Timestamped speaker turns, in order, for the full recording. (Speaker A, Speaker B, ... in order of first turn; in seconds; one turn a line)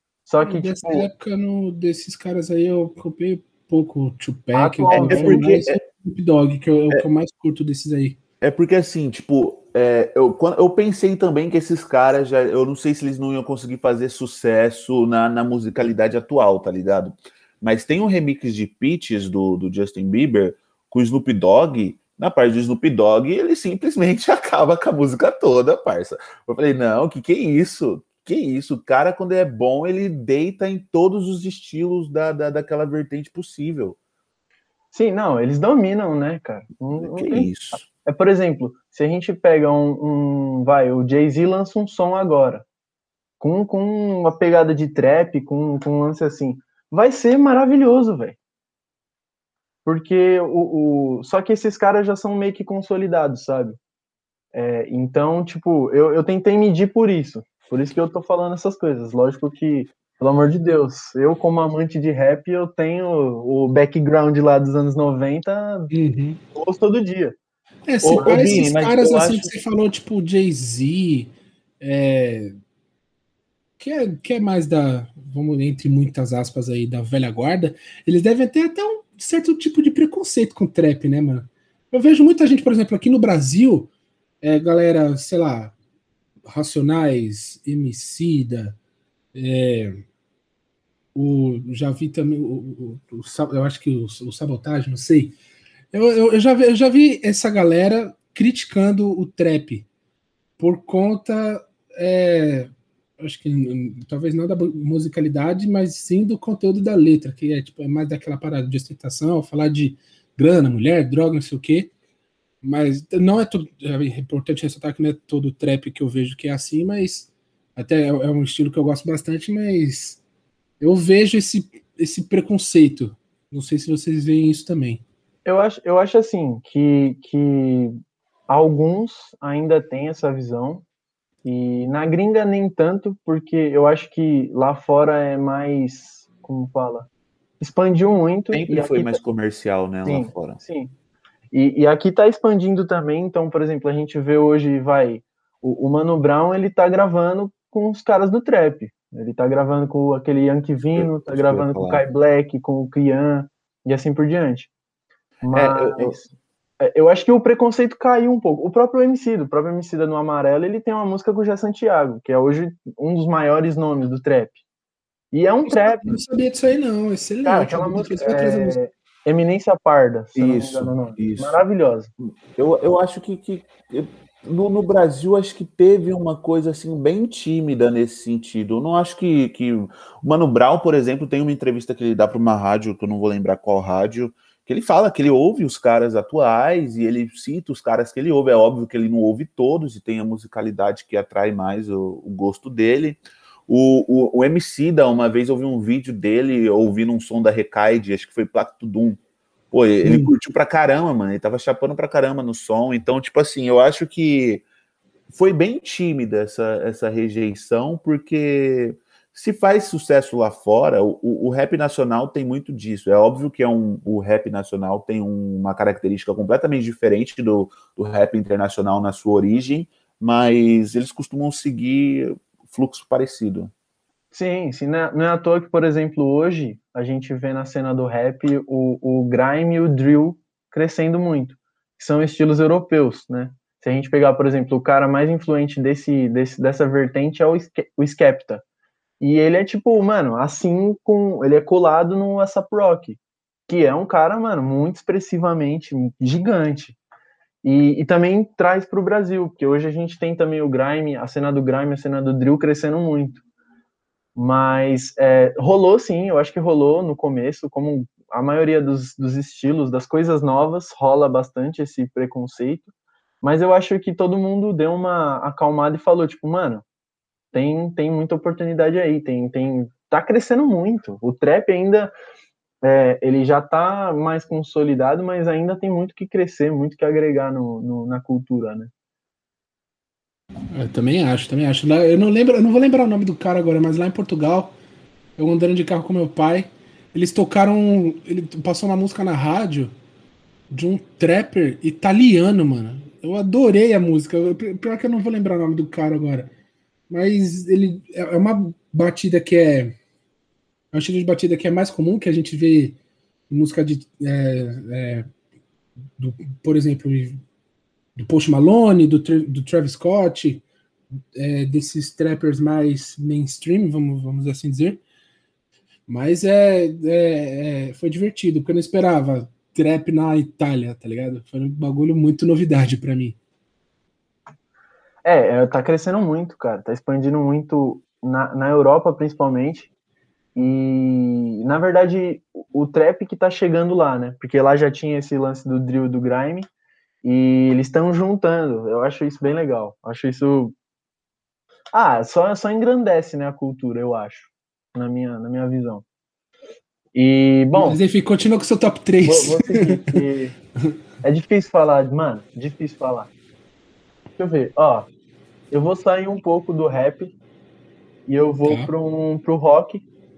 Speaker A: 0.2-1.1
Speaker B: 0.4-8.2
Speaker A: 4.5-5.5
Speaker C: 4.9-5.8
Speaker C: 8.4-34.0
Speaker A: 34.9-37.5
Speaker C: 37.0-37.9
Speaker A: 38.0-42.6
Speaker A: 43.4-48.4
Speaker A: 49.9-53.8
Speaker A: 54.5-65.9
Speaker B: 65.9-66.4
Speaker A: 66.5-67.4
Speaker B: 67.9-72.5
Speaker C: 68.0-69.5
Speaker A: 68.1-68.7
Speaker B: 73.8-83.9
Speaker B: 84.4-85.7
Speaker B: 86.5-88.8
Speaker B: 89.3-90.0
Speaker B: 91.1-95.3
Speaker B: 95.9-99.9
Speaker B: 100.6-111.9
Speaker B: 112.6-120.2
Speaker B: 120.8-125.0
Speaker A: 125.4-127.9
Speaker A: 128.5-130.8
Speaker A: 131.4-137.1
Speaker A: 137.6-139.2
Speaker C: 138.5-140.6
Speaker A: 140.1-140.9
Speaker A: 141.5-154.7
Speaker C: 150.9-152.0
Speaker A: 155.4-156.3
Speaker C: 155.5-156.2
Speaker A: 156.8-164.6
Speaker A: 165.3-166.1
Speaker B: 165.7-168.8
Speaker A: 167.4-172.1
Speaker C: 170.3-171.6
Speaker C: 172.2-199.2
Speaker C: 199.7-204.6
Speaker B: 200.0-200.3
Speaker C: 205.3-223.7
Speaker A: 224.3-238.6
Speaker A: 239.2-247.0
Speaker A: 247.6-253.4
Speaker A: 254.4-262.9
Speaker A: 263.4-266.8
Speaker A: 267.5-272.1
Speaker A: 272.8-278.9
Speaker B: 280.7-284.8
Speaker B: 285.4-289.9
Speaker B: 290.7-296.5
Speaker B: 297.1-299.9
Speaker B: 300.9-303.0
Speaker B: 303.5-305.3
Speaker B: 306.2-307.4
Speaker B: 308.1-310.6
Speaker B: 311.4-315.0
Speaker B: 316.1-323.4
Speaker A: 325.2-329.9
Speaker A: 330.6-336.7
Speaker A: 337.2-340.7
Speaker A: 341.9-346.0
Speaker A: 347.1-348.0
Speaker B: 347.8-350.3
Speaker A: 349.2-350.5
Speaker A: 351.2-353.3
Speaker A: 354.4-355.1
Speaker A: 355.7-357.3
Speaker A: 358.3-360.1
Speaker B: 358.6-358.9